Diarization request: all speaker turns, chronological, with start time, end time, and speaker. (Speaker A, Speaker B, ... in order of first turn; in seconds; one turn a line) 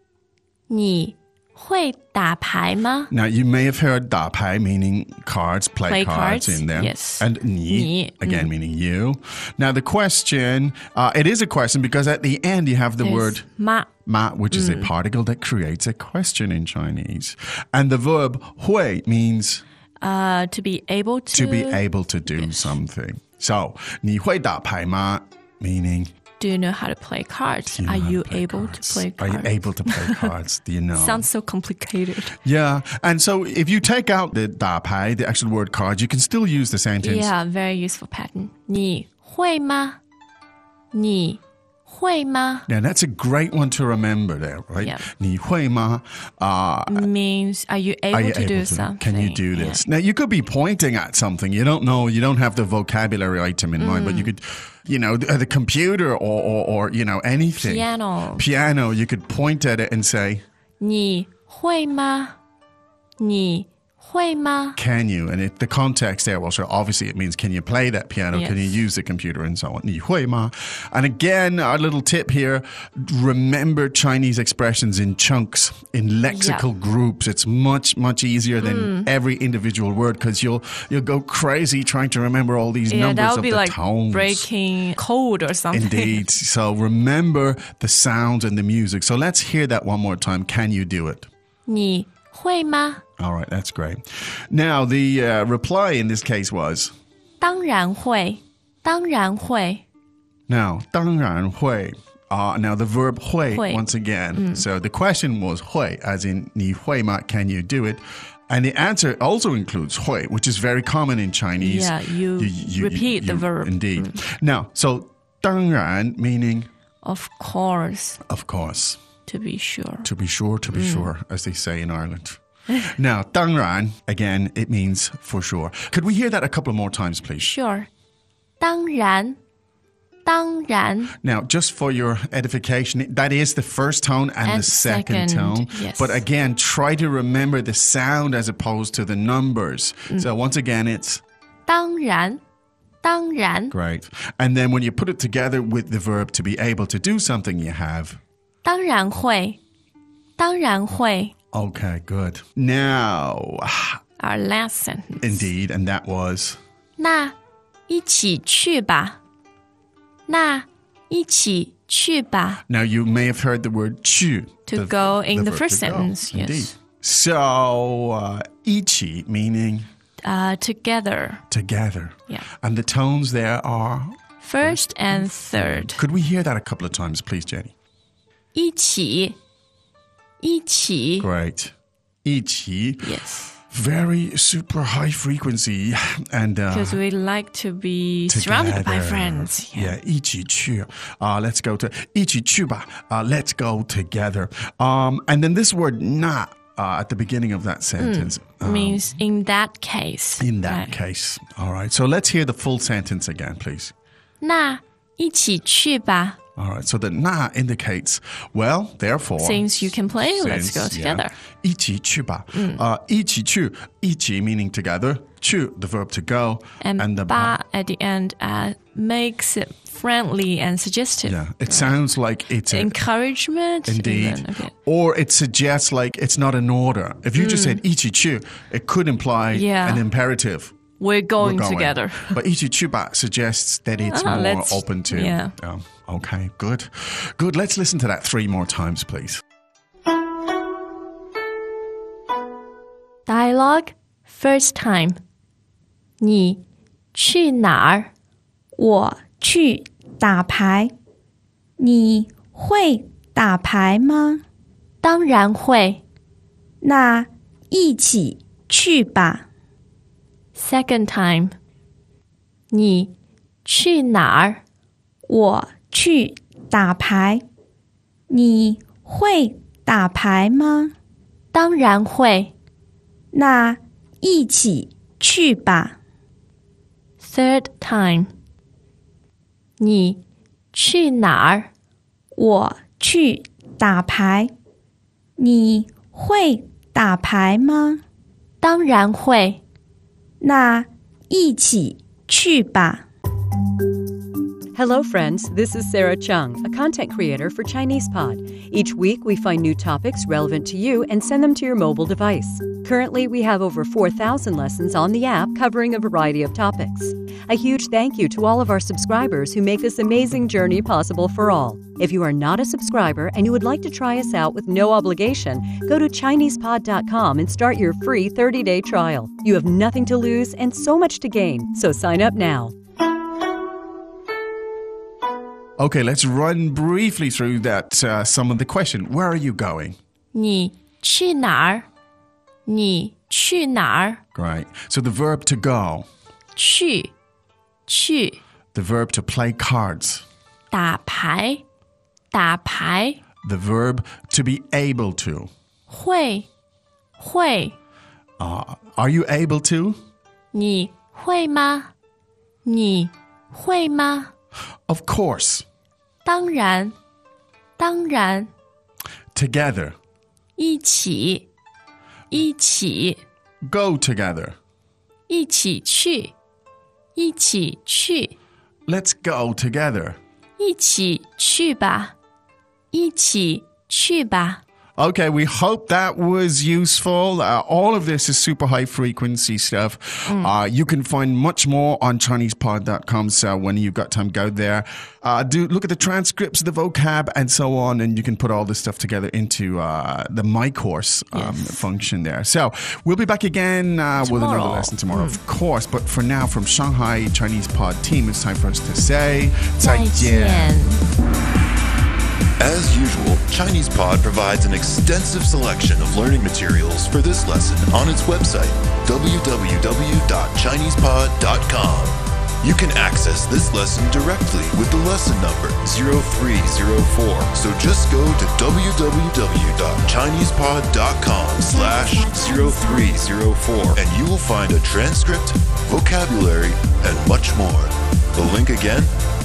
Speaker A: 0.7-3.1
Speaker B: 3.1-13.5
Speaker A: 5.9-8.5
Speaker A: 13.0-13.9
Speaker B: 14.0-19.6
Speaker A: 14.5-14.9
Speaker A: 20.0-22.8
Speaker B: 21.3-26.1
Speaker A: 26.4-30.3
Speaker B: 27.6-31.3
Speaker A: 30.9-32.4
Speaker B: 32.4-37.3
Speaker A: 37.0-40.0
Speaker A: 40.9-42.7
Speaker B: 42.7-47.1
Speaker A: 44.8-45.0
Speaker A: 46.9-49.8
Speaker B: 48.1-60.4
Speaker A: 53.8-54.3
Speaker A: 57.6-58.4
Speaker A: 60.8-62.3
Speaker A: 63.2-64.8
Speaker B: 64.8-84.5
Speaker A: 68.3-68.8
Speaker A: 76.2-76.7
Speaker A: 78.6-79.1
Speaker A: 82.9-86.2
Speaker B: 85.7-91.3
Speaker A: 91.7-93.0
Speaker B: 93.2-96.9
Speaker A: 97.4-99.8
Speaker B: 100.5-116.7
Speaker A: 103.5-104.7
Speaker A: 111.6-114.2
Speaker A: 117.0-118.2
Speaker B: 118.3-119.0
Speaker A: 119.2-120.1
Speaker B: 120.0-127.5
Speaker A: 120.7-121.1
Speaker A: 127.4-127.9
Speaker A: 128.6-129.4
Speaker A: 130.2-131.1
Speaker B: 131.2-141.2
Speaker A: 134.4-136.2
Speaker A: 141.7-142.4
Speaker A: 143.0-143.7
Speaker B: 143.7-148.2
Speaker A: 148.6-149.6
Speaker A: 150.4-151.3
Speaker B: 151.5-154.0
Speaker A: 154.2-155.5
Speaker B: 155.2-156.6
Speaker A: 157.0-157.3
Speaker A: 157.9-159.2
Speaker A: 160.3-162.6
Speaker B: 162.7-169.9
Speaker A: 164.7-166.7
Speaker A: 170.2-171.4
Speaker B: 171.5-177.7
Speaker A: 174.4-176.0
Speaker A: 178.5-179.4
Speaker A: 180.4-181.3
Speaker B: 181.2-181.7
Speaker B: 182.2-187.0
Speaker A: 183.0-183.5
Speaker A: 186.7-189.9
Speaker B: 188.3-199.1
Speaker A: 198.0-200.9
Speaker B: 200.4-203.9
Speaker A: 204.4-206.4
Speaker B: 206.6-217.6
Speaker A: 209.4-211.3
Speaker A: 212.5-212.8
Speaker A: 216.8-221.9
Speaker B: 221.2-223.0
Speaker A: 222.7-224.7
Speaker B: 223.8-230.7
Speaker A: 227.3-227.8
Speaker A: 229.5-230.0
Speaker A: 231.0-232.4
Speaker B: 231.4-239.4
Speaker A: 234.1-235.5
Speaker A: 243.2-245.2
Speaker A: 246.2-246.6
Speaker A: 247.1-248.1
Speaker C: 248.8-250.9
Speaker C: 251.8-254.4
Speaker A: 255.0-256.0
Speaker C: 256.8-259.4
Speaker A: 260.5-261.5
Speaker A: 262.7-263.1
Speaker A: 263.6-264.6
Speaker C: 265.3-267.4
Speaker C: 268.3-270.9
Speaker A: 271.5-272.5
Speaker C: 273.3-275.9
Speaker A: 277.2-278.3
Speaker A: 279.8-280.2
Speaker A: 280.7-281.7
Speaker C: 282.4-284.5
Speaker C: 285.4-288.0
Speaker A: 288.6-289.6
Speaker C: 290.4-293.0
Speaker D: 294.7-322.7
Speaker B: 325.8-330.0
Speaker A: 330.3-331.9
Speaker A: 332.6-334.2
Speaker B: 334.3-336.1
Speaker A: 336.5-337.1
Speaker A: 337.9-338.4
Speaker B: 338.7-340.2
Speaker A: 340.7-341.6
Speaker A: 342.3-343.2
Speaker B: 343.4-345.5
Speaker A: 345.9-346.5
Speaker A: 347.2-347.8
Speaker B: 348.4-350.0
Speaker A: 350.5-351.9
Speaker A: 352.6-354.3
Speaker B: 354.9-355.6
Speaker A: 356.2-356.9
Speaker A: 357.8-358.5
Speaker B: 359.3-359.9
Speaker A: 360.6-361.5
Speaker A: 362.3-363.2
Speaker B: 363.6-364.5
Speaker A: 365.3-366.3
Speaker A: 367.1-368.3
Speaker B: 368.9-370.2
Speaker A: 370.6-372.1
Speaker A: 372.9-374.6
Speaker B: 375.0-400.8
Speaker A: 380.2-380.5
Speaker A: 391.3-391.9
Speaker A: 394.2-395.4
Speaker A: 399.8-401.0
Speaker E: 402.6-429.1